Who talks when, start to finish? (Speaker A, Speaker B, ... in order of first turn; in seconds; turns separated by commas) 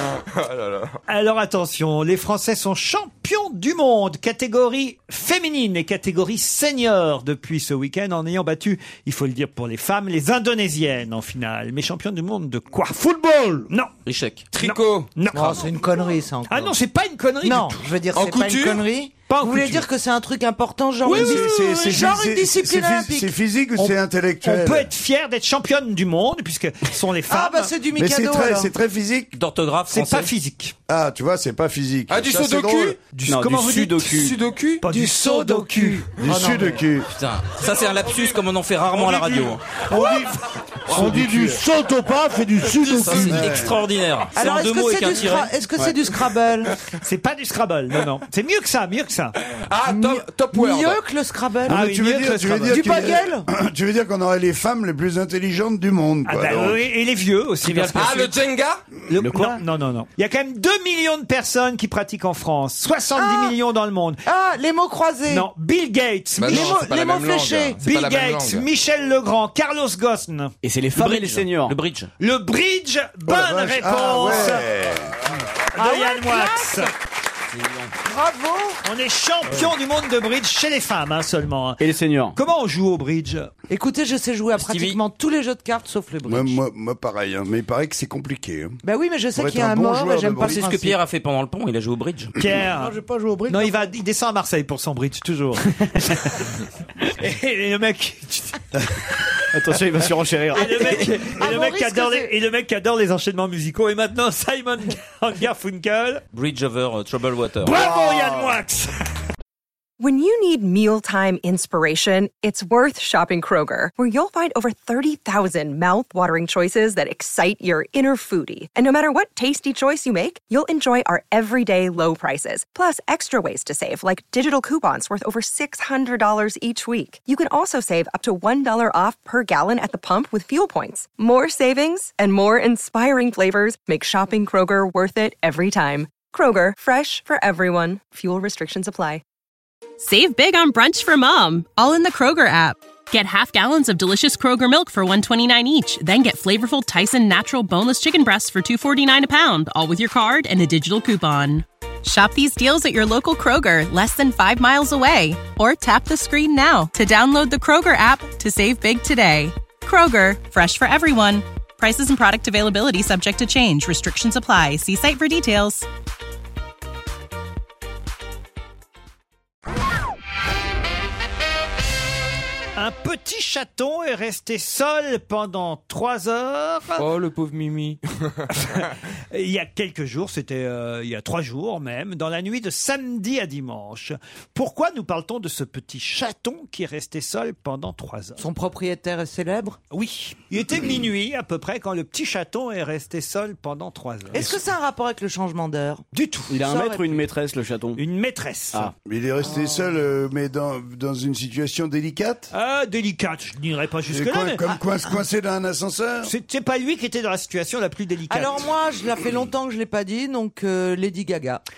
Speaker A: 0.3-1.0, Speaker B: 1.1-13.0, Speaker C: 12.9-13.7, Speaker D: 14.0-14.5, Speaker A: 14.5-15.1, Speaker B: 14.6-15.7, Speaker E: 15.3-16.7, Speaker B: 16.5-17.9, Speaker E: 17.4-23.3, Speaker A: 18.1-18.8, Speaker B: 19.3-19.8, Speaker B: 21.1-21.3, Speaker C: 21.1-22.1, Speaker F: 21.1-24.9, Speaker B: 24.4-27.7, Speaker E: 27.3-28.7, Speaker F: 27.9-29.4, Speaker D: 29.3-30.3, Speaker B: 29.9-30.7, Speaker F: 30.9-33.0, Speaker A: 32.1-33.0, Speaker B: 33.2-33.7, Speaker G: 33.2-34.4, Speaker A: 33.9-34.8, Speaker B: 34.8-36.1, Speaker E: 34.9-36.9, Speaker F: 36.2-37.1, Speaker D: 37.1-39.8, Speaker C: 38.9-43.5, Speaker D: 40.9-41.2, Speaker G: 40.9-41.5, Speaker D: 42.8-45.5, Speaker F: 43.1-43.8, Speaker E: 44.3-46.7, Speaker B: 47.0-49.3, Speaker A: 49.7-51.0, Speaker E: 49.8-51.9, Speaker F: 51.6-56.8, Speaker B: 51.7-53.1, Speaker E: 52.7-53.5, Speaker B: 56.2-58.4, Speaker A: 57.9-58.8, Speaker B: 59.1-64.2, Speaker G: 59.1-59.6, Speaker E: 63.1-63.5, Speaker E: 64.2-65.5, Speaker B: 65.3-66.8, Speaker A: 66.4-68.7, Speaker E: 66.5-67.8, Speaker B: 67.8-70.5, Speaker G: 70.6-71.8, Speaker D: 70.9-72.1, Speaker B: 72.2-74.7, Speaker F: 73.3-75.3, Speaker B: 75.7-76.9, Speaker E: 75.8-76.9, Speaker D: 77.6-77.9, Speaker E: 78.0-78.8, Speaker B: 78.8-83.5, Speaker G: 81.8-82.4, Speaker E: 83.7-86.6, Speaker D: 84.5-85.0, Speaker F: 86.2-88.8, Speaker E: 88.8-91.0, Speaker F: 89.3-90.7, Speaker D: 90.4-92.4, Speaker B: 92.4-93.0, Speaker C: 92.7-93.9, Speaker B: 93.5-96.5, Speaker B: 97.0-99.4, Speaker G: 99.5-101.2, Speaker B: 100.5-106.2, Speaker E: 100.5-102.3, Speaker D: 106.3-107.9, Speaker B: 107.6-108.9, Speaker H: 110.0-139.2, Speaker I: 140.0-165.9, Speaker B: 172.8-177.1, Speaker A: 177.0-178.0, Speaker B: 178.5-188.5, Speaker E: 188.4-189.8, Speaker B: 189.9-194.6, Speaker E: 194.3-196.0, Speaker B: 196.1-196.6, Speaker G: 196.5-198.0, Speaker E: 196.6-197.2, Speaker B: 198.0-198.9, Speaker F: 199.1-202.5, Speaker E: 199.4-199.9, Speaker B: 202.5-204.7, Speaker F: 204.1-206.3, Speaker B: 206.2-208.7, Speaker E: 208.3-211.6